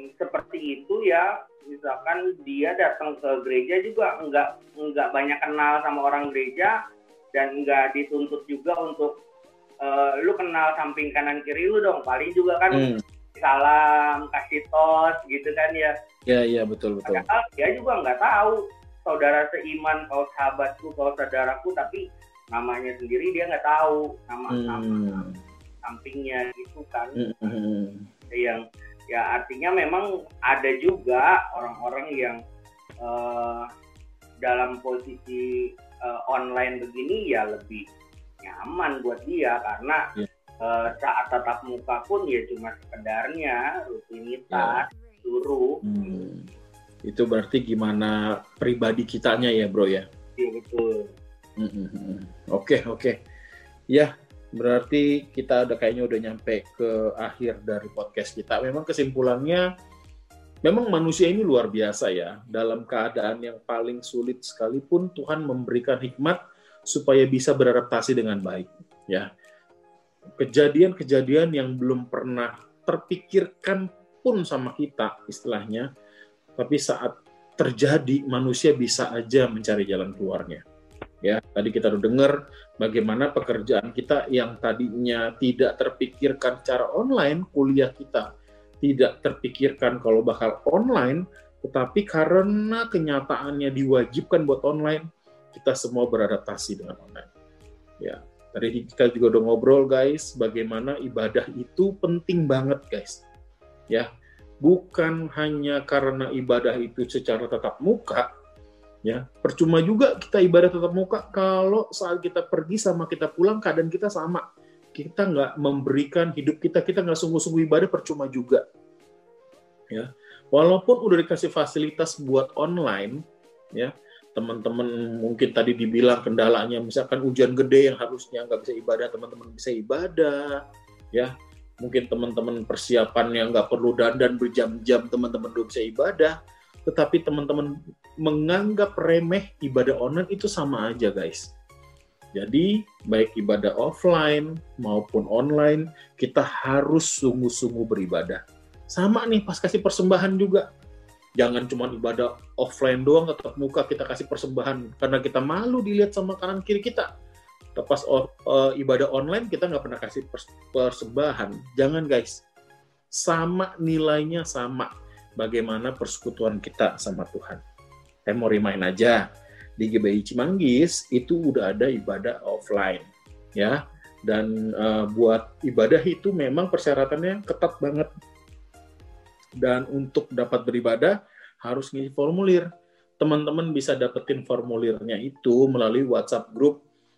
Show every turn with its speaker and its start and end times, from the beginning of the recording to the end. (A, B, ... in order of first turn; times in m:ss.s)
0:00.2-0:06.8 A
0:07.3-0:09.2 A
0:09.8-0:16.0 A
0:12.7-0:13.0 B
0:16.3-0:17.2 B
0:17.1-0:25.2 A
0:24.5-0:25.4 B
0:25.8-0:27.2 A
0:27.2-0:28.1 B
0:28.3-0:32.4 A
0:33.0-0:33.7 A
0:34.4-0:37.8 A
0:38.4-0:40.1 A
0:40.6-0:45.8 A
0:44.5-0:44.8 B
0:45.8-0:46.5 B
0:47.1-0:50.0 B
0:50.4-0:51.1 A
0:51.6-0:53.2 B
0:53.9-0:59.7 B
1:00.6-1:09.3 B
1:10.4-1:15.9 B
1:16.6-1:20.6 B
1:21.2-1:28.3 B
1:28.8-1:37.3 B
1:38.0-1:43.2 B
1:44.6-1:48.3 B
1:49.1-1:54.4 B
1:55.0-1:58.6 B
1:59.9-2:03.2 B
2:03.8-2:10.6 B
2:11.1-2:16.4 B
2:16.9-2:17.7 B
2:18.2-2:21.5 B
2:22.4-2:28.4 B
2:28.9-2:30.6 B
2:31.4-2:37.1 B
2:37.8-2:42.4 B
2:43.2-2:47.6 B
2:48.3-2:49.2 B
2:49.8-2:53.1 B
2:53.6-2:58.1 B
2:59.6-3:02.7 B
3:03.2-3:06.8 B